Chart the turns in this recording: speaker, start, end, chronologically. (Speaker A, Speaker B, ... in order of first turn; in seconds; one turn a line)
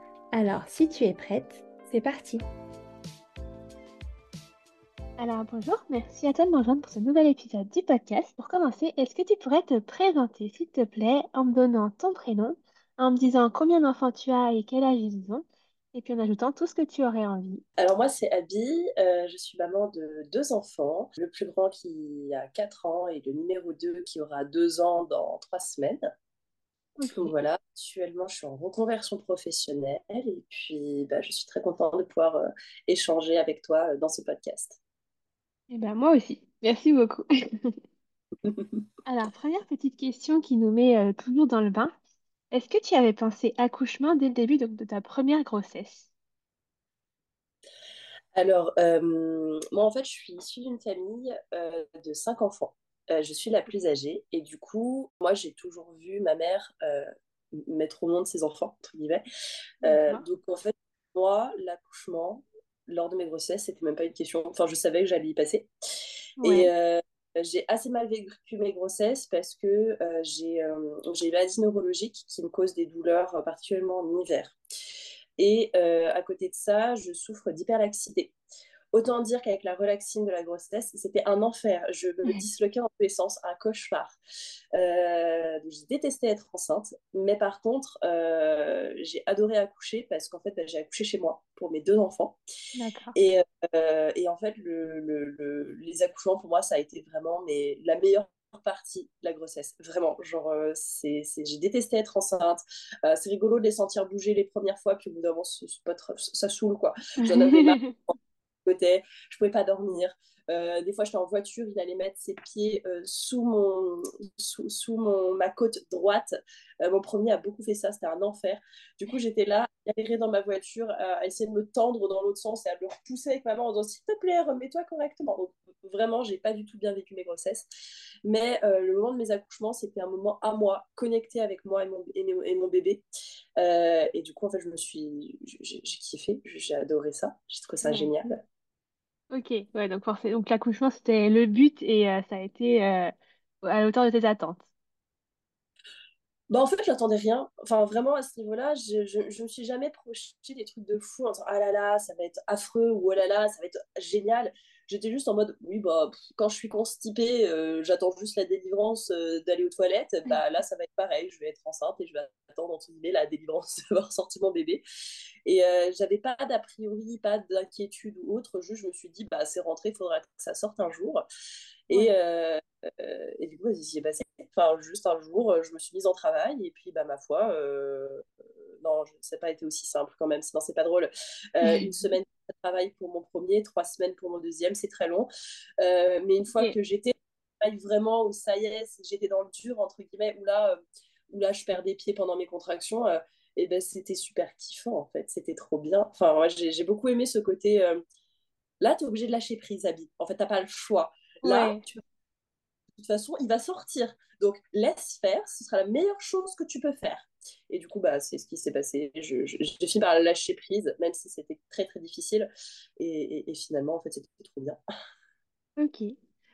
Speaker A: 0.3-2.4
Speaker B: 5.2-17.6
Speaker C: 17.8-26.0
Speaker B: 27.0-27.3
Speaker C: 27.1-34.8
Speaker B: 35.7-37.8
Speaker C: 38.5-38.7
Speaker B: 39.0-41.9
Speaker B: 42.5-46.1
Speaker C: 48.4-59.2
Speaker B: 59.8-60.2
Speaker C: 59.8-65.7
Speaker B: 66.4-66.7
Speaker C: 66.4-74.6
Speaker C: 75.4-78.3
Speaker C: 78.9-84.2
Speaker C: 84.7-92.4
Speaker B: 92.8-93.1
Speaker C: 93.1-127.6
Speaker B: 107.2-107.9
Speaker C: 128.2-133.0
Speaker C: 133.6-138.4
Speaker B: 137.8-138.1
Speaker B: 139.3-143.1
Speaker B: 143.6-144.6
Speaker C: 146.5-164.8
Speaker C: 165.4-171.2
Speaker C: 171.9-178.2
Speaker C: 178.8-185.3
Speaker B: 181.6-182.1
Speaker C: 185.8-198.0
Speaker C: 198.8-202.0
Speaker B: 201.4-201.8
Speaker C: 203.0-214.8
Speaker B: 215.8-216.2